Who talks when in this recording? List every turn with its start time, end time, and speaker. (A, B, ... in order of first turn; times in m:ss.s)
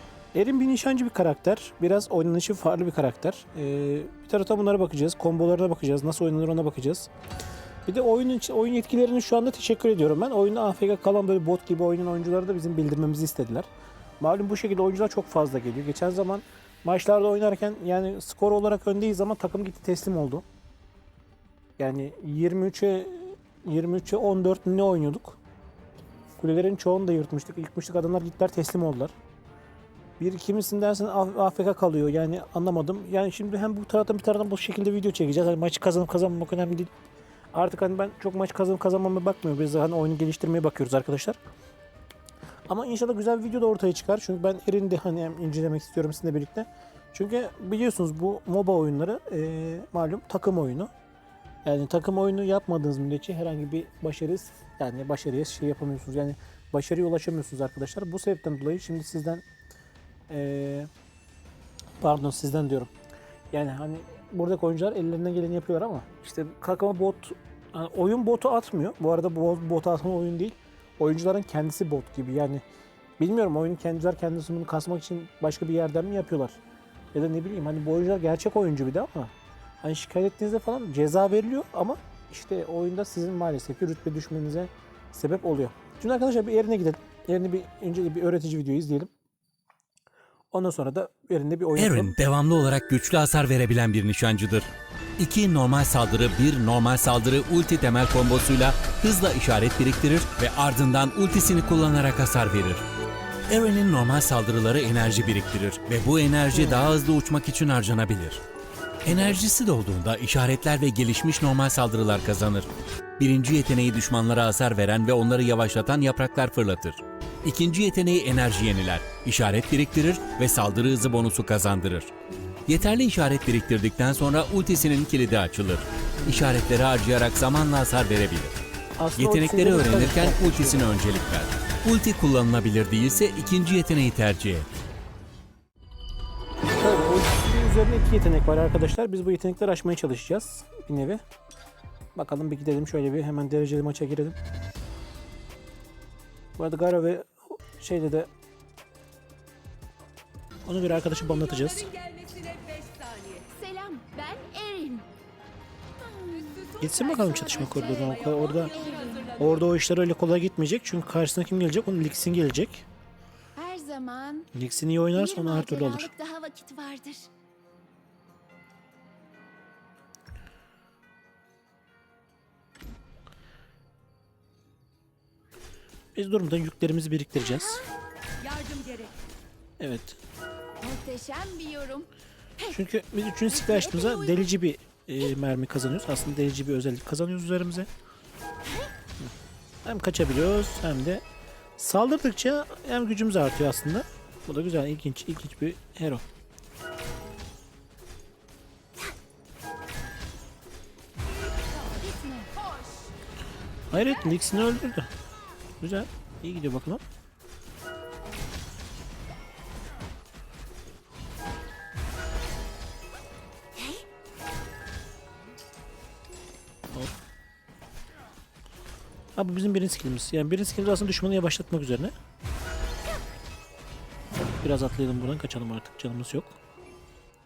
0:00.3-0:07.1 A
0:07.8-0:13.7 A
0:14.2-0:20.4 A
0:21.8-0:25.4 A
0:26.4-0:29.1 A
0:30.2-0:36.9 A
0:37.5-0:41.4 A
0:42.7-0:50.9 A
0:51.6-0:59.4 A
1:00.3-1:00.9 A
1:02.0-1:02.9 A
1:03.5-1:12.6 A
1:13.2-1:16.6 A
1:17.1-1:29.1 A
1:30.5-1:32.2 A
1:31.8-1:42.8 B
1:43.5-1:48.4 B
1:46.5-1:46.9 A
1:49.0-2:02.1 B
2:02.7-2:08.6 B
2:09.0-2:10.9 A
2:09.2-2:14.7 B
2:16.8-2:21.2 A
2:22.1-2:24.4 A
2:26.6-2:28.3 A
2:30.6-2:31.9 A
2:31.9-2:33.4 C
2:33.5-2:35.1 D
2:36.0-2:39.5 D
2:36.6-2:37.1 C
2:36.8-2:38.8 A
2:38.1-2:38.8 C
2:39.3-2:42.8 A
2:43.6-2:44.5 D
2:44.5-2:46.1 A
2:45.1-2:47.3 D
2:56.1-2:57.8 A
2:57.5-2:57.9 D
2:58.5-2:59.1 C
2:59.8-3:00.2 A
3:00.8-3:02.1 D
3:02.7-3:07.9 A
3:03.5-3:04.5 D
3:09.8-3:11.2 A
3:11.8-3:16.2 A
3:22.0-3:22.6 D
3:23.9-3:25.1 A
3:25.8-3:27.0 A
3:39.4-3:42.1 A
3:44.3-3:46.6 A